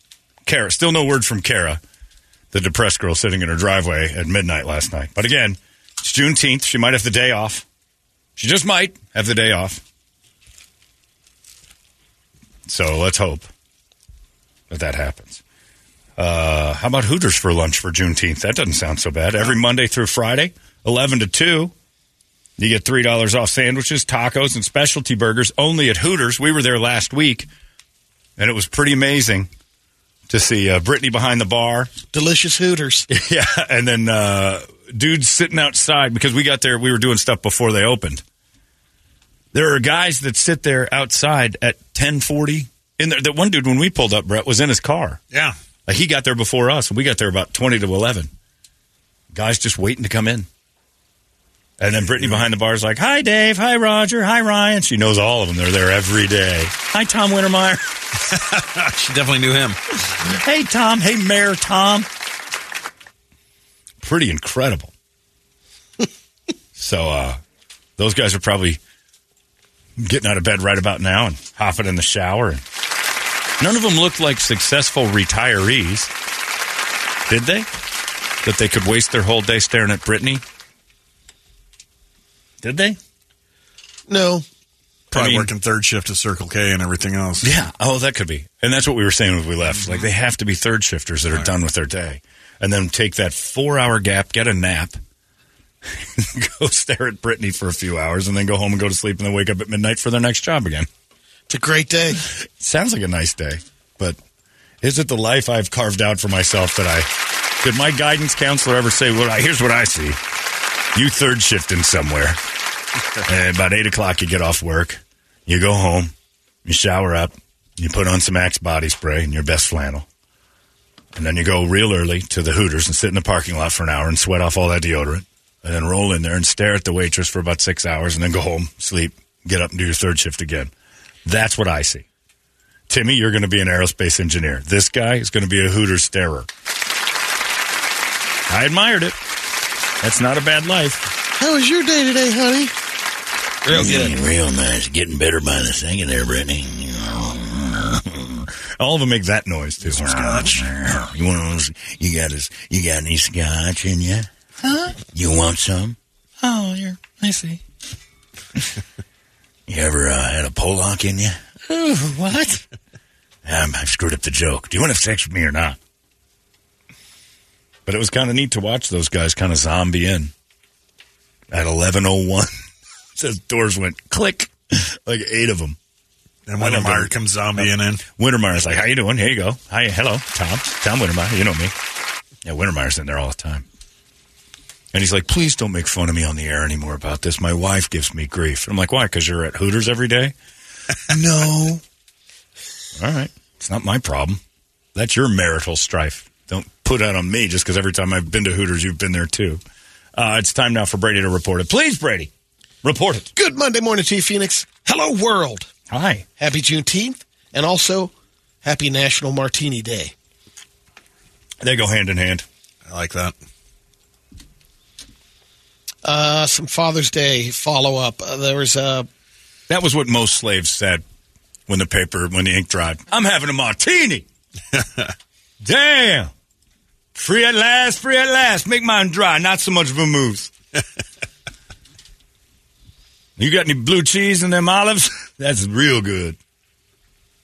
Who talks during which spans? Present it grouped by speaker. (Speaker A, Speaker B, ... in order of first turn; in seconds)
Speaker A: 0.5-1.8, 2.5-7.6, 8.4-9.8, 12.7-13.5, 14.7-15.4, 16.2-21.7, 22.6-27.5, 28.4-29.5, 30.3-31.9, 33.1-38.2, 39.5-45.2, 45.9-48.3, 49.3-50.5, 51.8-57.9, 60.2-62.1, 64.0-64.9, 66.8-67.4, 68.0-68.8, 70.0-72.6, 73.6-76.1, 77.3-77.7, 78.4-80.4, 82.6-83.0, 85.1-85.5, 87.4-95.0, 95.9-100.9, 102.3-104.2, 104.8-110.2, 110.9-112.4, 113.2-116.1, 116.6-120.1, 121.1-130.7, 131.2-132.1, 132.9-136.5, 138.5-139.2, 140.0-141.1, 143.7-157.6, 159.7-162.6, 163.4-165.8, 167.8-170.3, 171.5-172.5, 173.1-175.8, 176.6-181.7, 182.4-183.6, 184.9-190.3, 191.1-191.5, 192.9-194.4, 194.9-199.6, 200.1-202.3, 202.8-203.3, 205.9-206.2, 211.6-212.4, 219.7-221.0, 221.7-224.2, 225.6-226.3, 227.1-230.5, 233.4-236.4
Speaker B: 32.1-33.1, 84.1-84.5, 101.5-102.2, 141.4-142.7, 143.7-144.1, 203.3-205.7, 206.4-208.1, 208.6-210.1, 216.0-219.1
Speaker C: 58.3-59.8, 85.1-87.5, 149.8-150.7, 176.5-178.0, 191.1-191.8, 212.9-213.3